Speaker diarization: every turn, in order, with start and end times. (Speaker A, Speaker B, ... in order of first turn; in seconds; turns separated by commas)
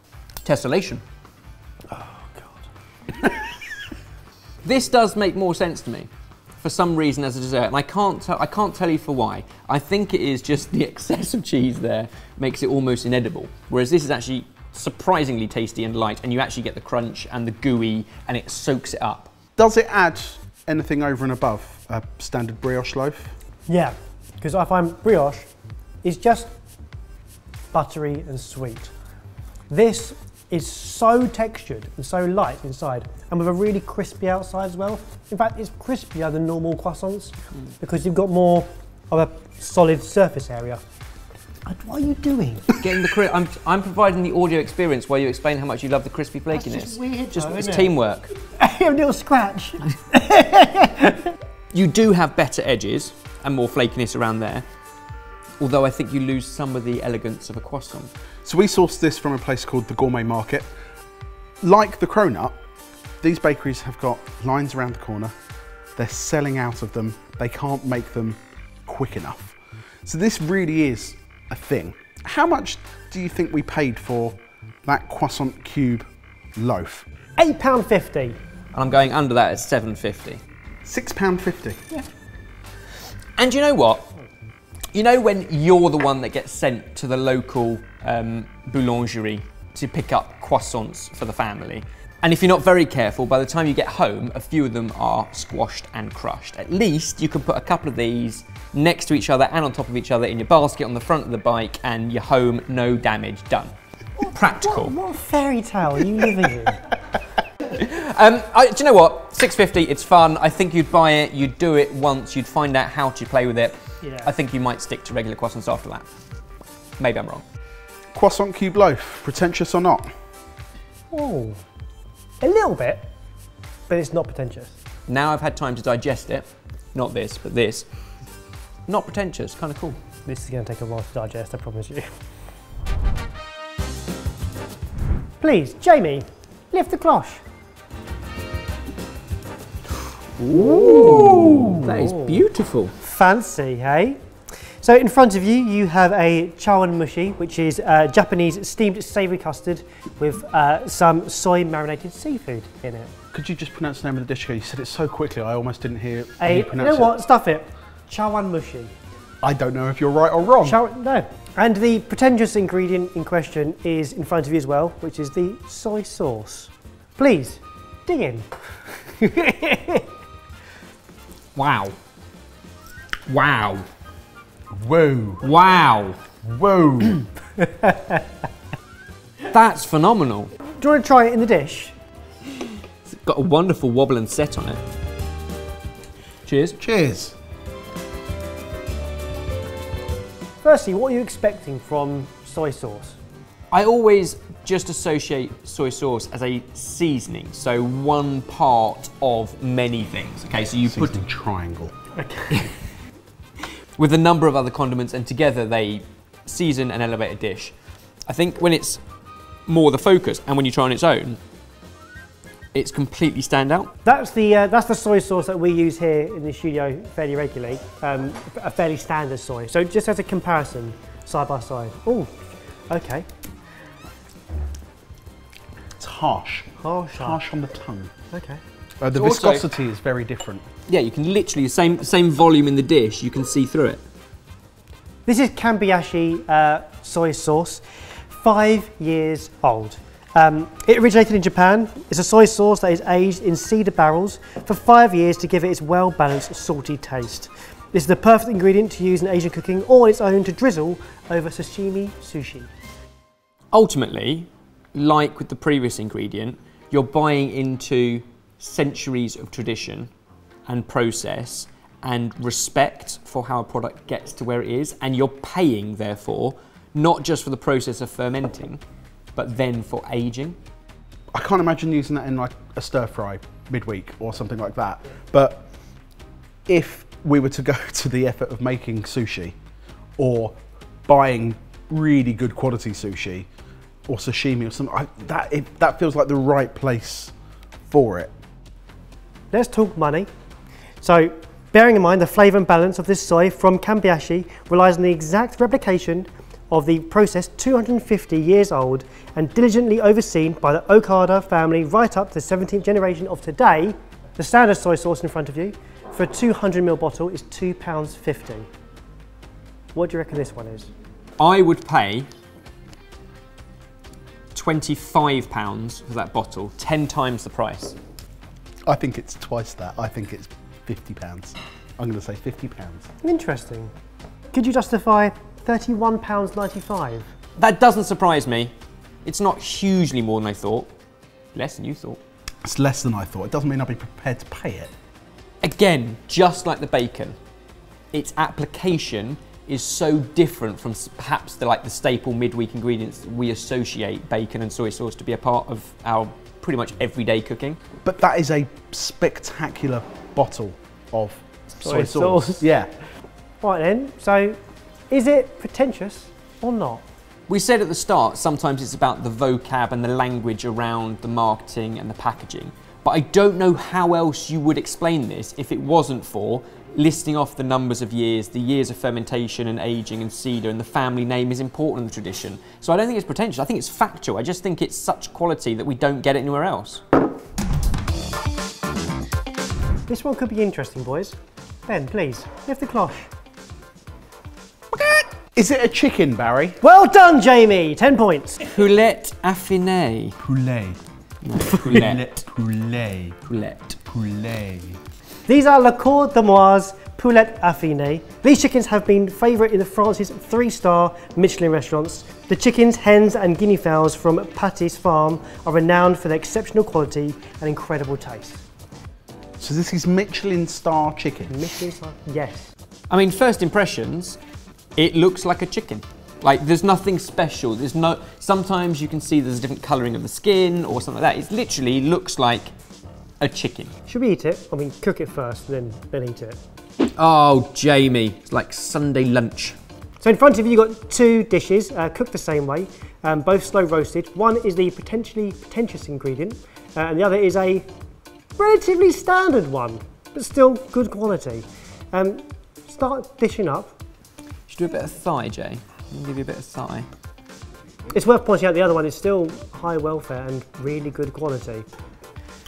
Speaker A: 0.4-1.0, Speaker B: 1.9-2.6, Speaker A: 4.6-6.1, Speaker A: 6.6-19.3, Speaker C: 19.6-23.3, Speaker B: 23.7-25.5, Speaker B: 26.0-26.5, Speaker B: 27.7-28.9, Speaker B: 29.7-40.8, Speaker B: 41.6-42.9, Speaker A: 42.8-48.3, Speaker B: 46.5-51.3, Speaker A: 51.7-54.6, Speaker A: 55.6-58.1, Speaker C: 58.4-60.7, Speaker C: 61.6-62.6, Speaker C: 63.2-65.3, Speaker C: 66.0-76.0, Speaker C: 76.6-77.0, Speaker B: 77.4-78.4, Speaker A: 78.7-80.4, Speaker C: 80.8-81.8, Speaker A: 83.4-84.1, Speaker A: 84.9-103.7, Speaker B: 104.2-106.8, Speaker A: 104.3-104.9, Speaker A: 107.7-116.1, Speaker B: 114.0-114.3, Speaker A: 117.0-117.4, Speaker C: 118.1-120.1, Speaker B: 121.1-121.6, Speaker B: 122.4-123.0, Speaker B: 123.9-124.7, Speaker A: 125.1-127.8, Speaker A: 128.9-130.0, Speaker B: 130.2-132.1, Speaker B: 135.4-137.4, Speaker A: 140.4-142.9, Speaker B: 141.3-142.4, Speaker B: 143.0-144.2, Speaker B: 144.8-153.1, Speaker C: 153.3-157.1, Speaker B: 156.4-158.9, Speaker C: 159.4-160.8, Speaker B: 160.6-168.5, Speaker B: 169.2-170.1, Speaker A: 171.5-171.9, Speaker A: 173.3-173.8, Speaker C: 174.7-175.5, Speaker A: 175.4-176.2, Speaker C: 176.4-177.2, Speaker B: 177.6-178.2, Speaker A: 179.4-180.5, Speaker B: 180.7-181.9, Speaker A: 183.1-184.8, Speaker A: 186.4-186.8, Speaker C: 186.8-187.3, Speaker B: 190.6-193.2, Speaker A: 193.7-201.2, Speaker C: 200.8-201.9, Speaker B: 202.2-202.6, Speaker A: 204.0-207.7, Speaker A: 208.3-209.0, Speaker A: 209.7-211.4, Speaker A: 212.7-213.9, Speaker B: 214.0-222.3, Speaker B: 222.9-223.3, Speaker C: 226.0-228.1, Speaker B: 226.8-227.4, Speaker B: 228.3-228.6, Speaker C: 229.0-230.6, Speaker A: 229.1-229.7, Speaker A: 230.9-234.0, Speaker B: 235.2-252.7, Speaker A: 253.7-260.1, Speaker A: 260.7-268.8, Speaker A: 269.4-270.6, Speaker C: 271.3-275.6, Speaker C: 276.7-279.5, Speaker C: 280.2-283.5, Speaker C: 284.1-287.3, Speaker C: 287.9-288.3, Speaker B: 289.5-290.3, Speaker B: 291.0-308.7, Speaker B: 309.9-310.9, Speaker A: 311.4-312.3, Speaker A: 314.5-317.9, Speaker C: 318.9-323.1, Speaker B: 323.2-323.9, Speaker B: 324.5-327.3, Speaker A: 327.6-328.7, Speaker A: 329.2-330.9, Speaker A: 331.5-332.2, Speaker C: 332.6-334.9, Speaker A: 335.6-337.4, Speaker A: 338.1-347.8, Speaker C: 348.0-352.9, Speaker B: 351.8-352.7, Speaker B: 353.6-354.6, Speaker B: 355.1-357.0, Speaker A: 357.5-377.0, Speaker B: 380.1-383.3, Speaker C: 384.9-386.8, Speaker B: 386.8-388.6, Speaker A: 388.6-390.4, Speaker C: 390.4-391.0, Speaker A: 391.4-392.4, Speaker C: 391.7-393.4, Speaker A: 393.5-394.0, Speaker C: 394.1-395.0, Speaker B: 395.5-408.6, Speaker C: 409.6-411.6, Speaker B: 411.5-412.7, Speaker A: 413.1-414.4, Speaker A: 415.0-422.7, Speaker A: 423.4-423.9, Speaker B: 424.1-426.6, Speaker A: 427.1-429.8, Speaker B: 430.2-437.8, Speaker B: 438.6-443.9, Speaker A: 444.7-447.1, Speaker B: 448.1-451.9